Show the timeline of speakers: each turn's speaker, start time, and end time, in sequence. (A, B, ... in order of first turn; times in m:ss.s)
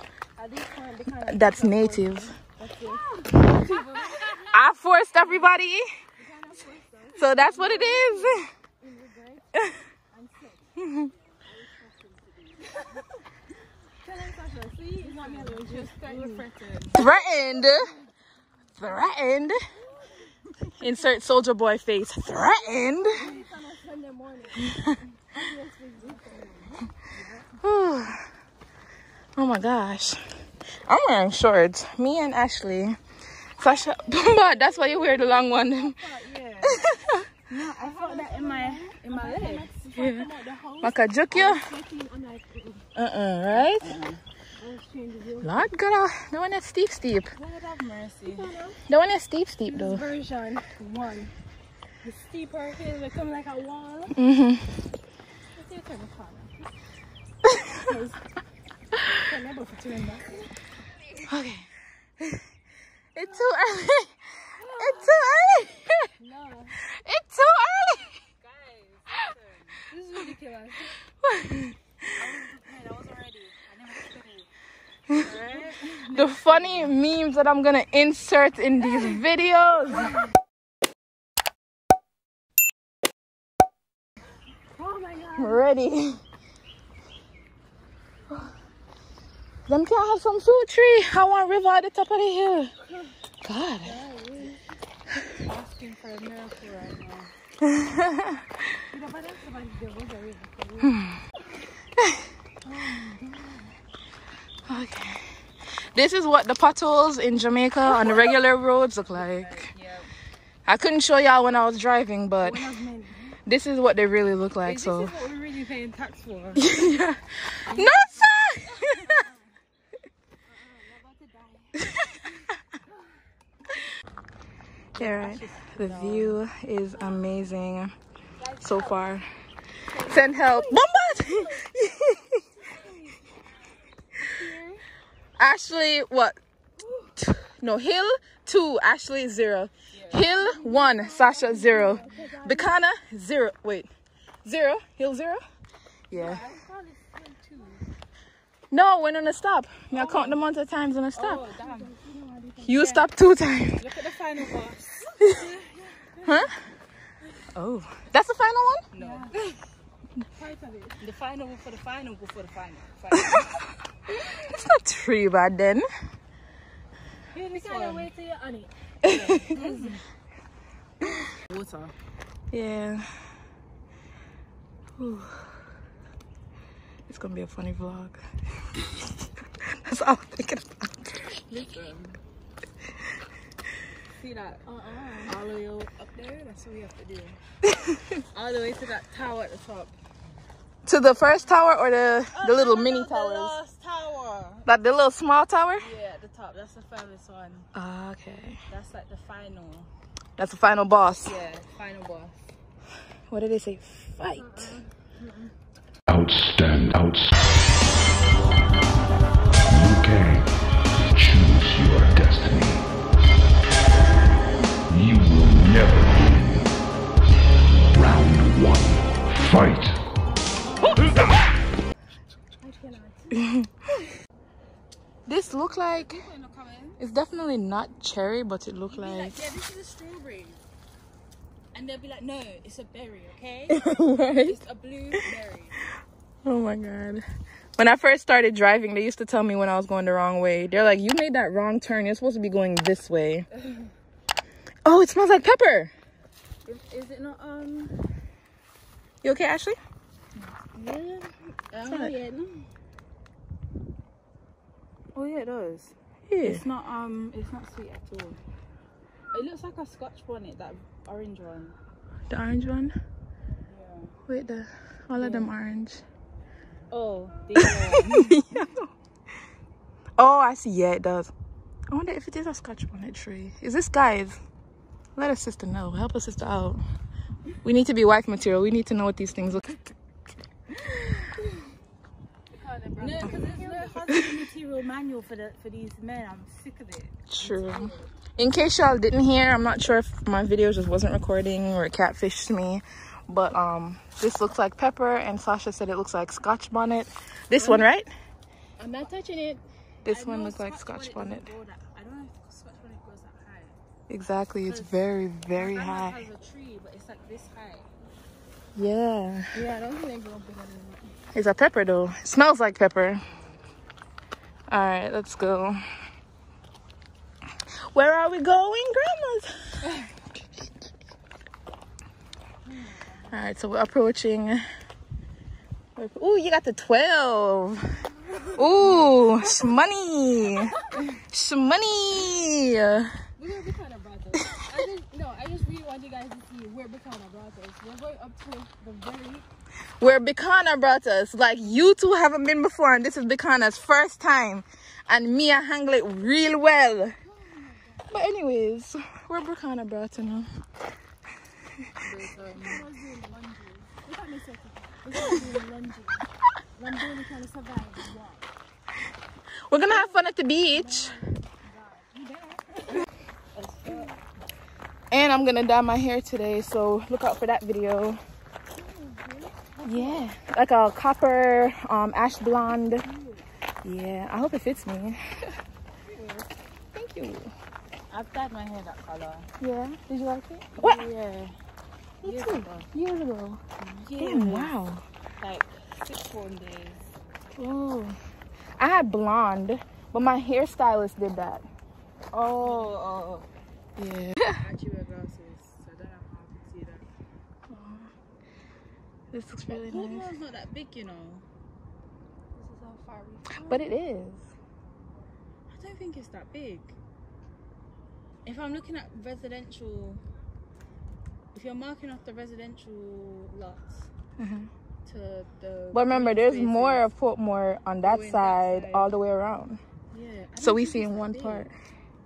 0:00.4-0:04.5 A
0:01.2-0:02.3 B
0:03.5-0:04.2 C
0:04.4-0:05.8 B
0:06.2-0:10.7 A
0:07.2-0:08.4 B
0:10.8-0:11.1 B
0:11.5-0:13.2 A
0:14.0-0:16.5 A
0:15.0-0:17.0 C
0:16.9-0:17.9 B
0:18.8-0:19.6 B
0:20.4-0:20.7 A
0:20.8-0:23.2 B
0:23.0-0:24.8 A
0:24.6-0:24.9 B
0:25.3-0:27.5 A
0:27.6-0:28.2 B
0:29.4-0:30.2 B
0:30.8-0:33.0 B
0:33.6-0:36.0 B
0:34.3-0:36.8 A
0:36.6-0:37.2 B
0:37.5-0:39.7 C
0:37.8-0:42.8 A
0:39.9-0:40.3 B
0:40.8-0:41.7 B
0:42.9-0:43.9 B
0:43.5-0:44.2 C
0:44.6-0:45.7 A
0:45.4-0:47.3 B
0:47.3-0:48.5 C
0:48.2-0:48.8 A
0:48.9-0:50.1 B
0:49.7-0:51.3 A
0:52.0-0:54.2 A
0:54.1-0:54.9 B
0:55.5-0:56.7 A
0:57.8-0:58.2 A
0:59.2-1:00.5 A
1:01.2-1:01.7 B
1:03.1-1:06.1 B
1:04.6-1:05.3 A
1:06.2-1:06.8 A
1:06.9-1:08.2 B
1:08.4-1:09.4 C
1:09.9-1:10.9 A
1:11.2-1:11.8 B
1:12.2-1:14.4 C
1:15.1-1:16.9 C
1:15.4-1:16.1 A
1:15.9-1:20.2 B
1:24.8-1:25.6 A
1:25.4-1:26.2 B
1:29.7-1:32.7 B
1:33.4-1:34.0 B
1:33.8-1:34.6 A
1:35.4-1:37.3 C
1:37.6-1:38.5 B
1:38.9-1:40.9 A
1:40.8-1:41.2 B
1:42.6-1:43.7 A
1:44.7-1:45.2 B
1:45.9-1:49.7 B
1:49.1-1:50.1 C
1:50.7-1:52.7 B
1:52.4-1:53.4 A
1:53.4-1:55.1 B
1:54.6-1:56.7 C
1:56.6-1:59.1 B
1:57.7-1:58.1 C
1:58.8-1:59.3 A
2:00.5-2:01.9 A
2:05.0-2:06.4 C
2:05.0-2:07.9 B
2:08.4-2:09.0 A
2:08.6-2:09.2 B
2:09.9-2:11.6 A
2:10.0-2:12.2 B
2:12.7-2:13.2 A
2:14.2-2:14.8 A
2:15.4-2:16.4 B
2:17.2-2:23.9 B
2:19.9-2:20.3 C
2:20.3-2:22.7 A
2:21.7-2:22.2 C
2:24.4-2:25.4 B
2:26.1-2:26.4 B
2:26.1-2:26.7 C
2:26.7-2:27.6 A
2:28.7-2:31.4 B
2:30.0-2:30.4 C
2:31.1-2:31.9 C
2:31.4-2:32.8 A
2:32.6-2:33.8 B
2:32.8-2:33.0 C
2:33.7-2:35.4 C
2:35.2-2:36.2 A
2:36.2-2:36.5 B
2:37.5-2:38.8 B
2:38.9-2:39.3 C
2:39.0-2:39.6 A
2:40.4-2:41.0 A
2:41.0-2:43.5 C
2:43.1-2:43.4 B
2:44.2-2:45.8 B
2:47.3-2:48.1 C
2:47.3-2:48.7 A
2:49.0-2:49.7 B
2:49.0-2:50.0 C
2:49.5-2:50.0 A
2:51.5-2:51.9 C
2:52.5-2:53.0 B
2:55.0-2:55.4 B
2:57.1-3:01.4 B
3:01.5-3:02.2 C
3:04.2-3:04.6 C
3:04.6-3:05.4 A
3:05.2-3:07.4 C
3:07.6-3:08.2 B
3:08.3-3:09.9 C
3:10.8-3:13.6 B
3:12.3-3:14.7 C
3:14.6-3:15.9 B
3:15.8-3:17.7 C
3:17.7-3:18.6 B
3:18.7-3:19.9 C
3:20.4-3:21.4 B
3:21.2-3:22.4 C
3:23.3-3:24.8 B
3:26.1-3:27.3 D
3:29.7-3:30.5 D
3:31.1-3:32.8 D
3:34.9-3:36.4 D
3:37.9-3:40.0 D
3:42.6-3:43.5 A
3:43.3-3:43.7 B
3:45.3-3:46.2 B
3:45.9-3:47.0 C
3:47.0-3:49.5 B
3:48.9-3:50.6 C
3:51.7-3:53.8 C
3:53.7-3:54.6 B
3:54.4-3:55.8 C
3:56.4-3:57.2 B
3:57.8-4:03.4 B
4:04.8-4:05.9 B
4:06.6-4:08.0 C
4:09.2-4:09.8 B
4:10.4-4:12.4 C
4:11.8-4:12.1 B
4:11.9-4:12.2 A
4:15.1-4:15.9 C
4:16.3-4:16.6 B
4:16.4-4:18.4 C
4:19.3-4:21.8 C
4:22.3-4:22.9 B
4:23.7-4:24.1 C
4:24.3-4:26.0 B
4:25.1-4:25.5 C
4:26.9-4:28.4 C
4:27.6-4:28.9 B
4:30.2-4:31.3 B
4:31.9-4:34.4 B
4:35.2-4:36.8 B
4:37.6-4:39.9 B
4:42.5-4:43.9 A
4:43.0-4:47.6 C
4:47.3-4:58.1 B
4:47.6-4:48.0 A
4:58.8-4:59.6 A
5:00.0-5:01.5 B
5:00.0-5:03.8 C
5:04.1-5:06.2 B
5:04.7-5:07.9 C
5:08.8-5:09.5 B
5:09.5-5:11.1 A
5:11.3-5:13.2 B
5:14.7-5:15.8 B
5:17.9-5:19.5 B
5:23.3-5:24.6 B
5:26.0-5:27.8 B
5:28.5-5:33.1 B
5:28.8-5:29.2 C
5:33.4-5:39.4 A
5:40.0-5:47.1 B
5:47.4-5:48.0 A
5:48.1-5:50.5 B
5:52.0-5:52.8 C
5:52.5-5:58.5 A
5:59.7-6:01.2 B
5:59.8-6:03.0 A
6:03.5-6:04.1 C
6:03.8-6:04.2 A
6:05.1-6:08.2 B
6:08.8-6:10.2 A
6:09.8-6:13.1 B
6:13.0-6:13.4 A
6:13.8-6:15.2 B
6:16.1-6:16.4 A
6:16.9-6:17.5 B
6:18.1-6:19.5 C
6:19.6-6:21.2 B
6:20.8-6:21.5 C
6:22.2-6:22.9 C
6:22.2-6:23.6 B
6:23.8-6:24.7 C
6:24.2-6:25.0 B
6:25.4-6:27.0 C
6:27.6-6:28.2 B
6:28.8-6:31.6 B
6:32.3-6:33.4 C
6:34.0-6:34.6 B
6:34.6-6:37.0 C
6:37.7-6:38.1 B
6:39.3-6:40.3 B
6:39.7-6:41.4 C
6:42.5-6:43.8 A
6:43.7-6:44.4 B
6:45.7-6:46.9 C
6:48.4-6:50.2 C
6:51.5-6:54.1 C
6:54.4-6:54.7 B
6:55.0-6:57.1 C
6:55.9-6:59.8 B
6:58.0-6:59.1 C
7:00.1-7:01.7 C
7:00.6-7:01.7 B